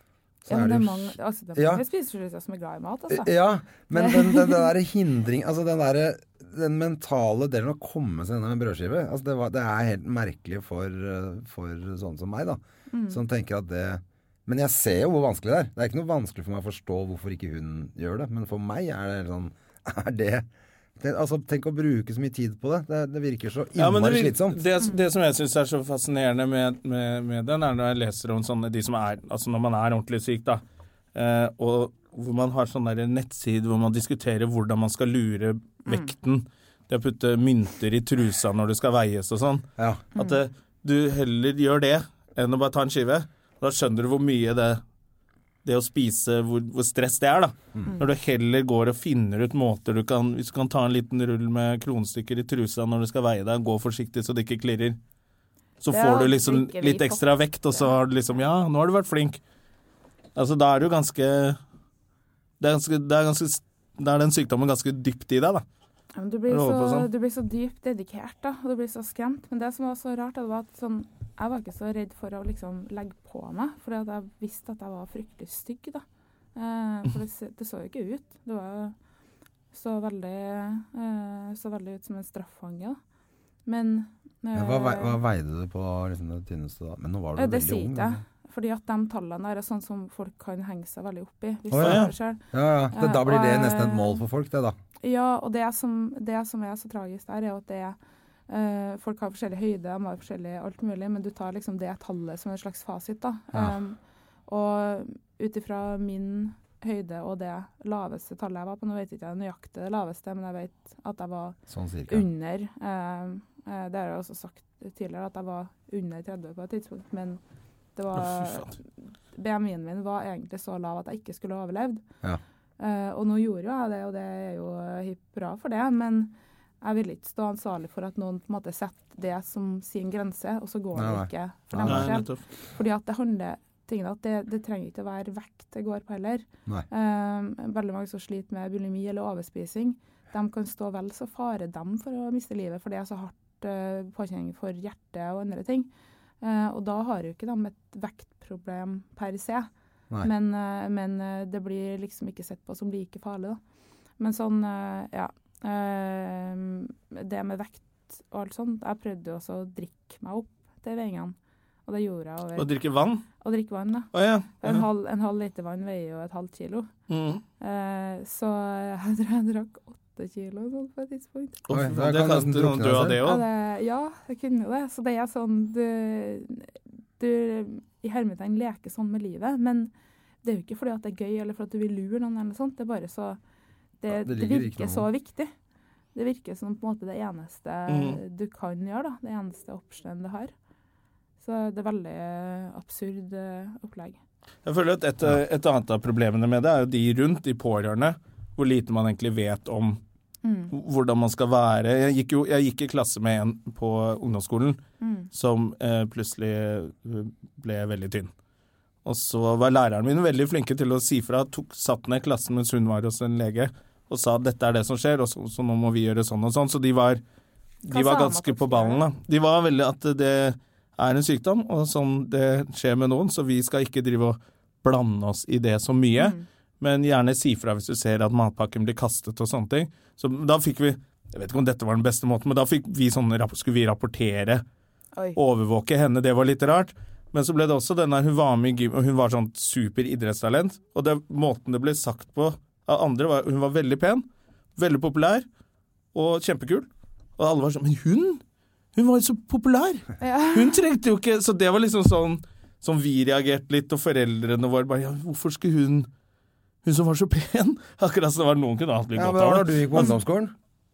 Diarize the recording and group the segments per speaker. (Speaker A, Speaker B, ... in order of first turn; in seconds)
Speaker A: 0.5-1.8, 3.1-20.5, 21.0-24.6, 39.8-40.0, 84.5-88.2, 91.7-94.8, 111.7-112.3, 130.9-132.1, 171.7-173.2, 184.1-185.1, 259.2-260.5
Speaker B: 0.5-3.3, 3.9-4.7, 12.9-13.2, 35.9-36.1, 40.2-40.4, 55.9-58.0, 66.2-76.0, 76.5-79.0, 79.7-83.0, 83.7-85.2, 87.4-94.2, 95.0-98.0, 98.5-111.6, 112.1-117.4, 118.0-118.8, 119.3-122.0, 122.8-145.9, 146.4-149.7, 150.2-153.6, 154.2-161.3, 161.9-162.7, 163.4-166.9, 167.6-171.6, 173.2-179.9, 180.4-183.4, 184.0-185.5, 186.2-190.5, 191.4-194.2, 200.4-200.7, 205.0-205.3, 217.9-219.0, 226.2-226.4, 250.2-250.8
Speaker C: 23.8-30.6, 31.1-44.8, 45.6-55.0, 55.8-59.4, 60.4-61.6, 62.6-65.6, 66.5-67.1, 91.8-92.1, 118.2-118.7, 131.8-132.4, 162.6-163.2, 164.1-164.8, 167.1-167.4, 171.7-173.4, 187.9-188.2, 194.7-200.0, 200.7-208.3, 209.0-217.2, 217.8-234.6, 235.4-245.5, 246.1-248.4, 248.9-256.1, 256.8-260.0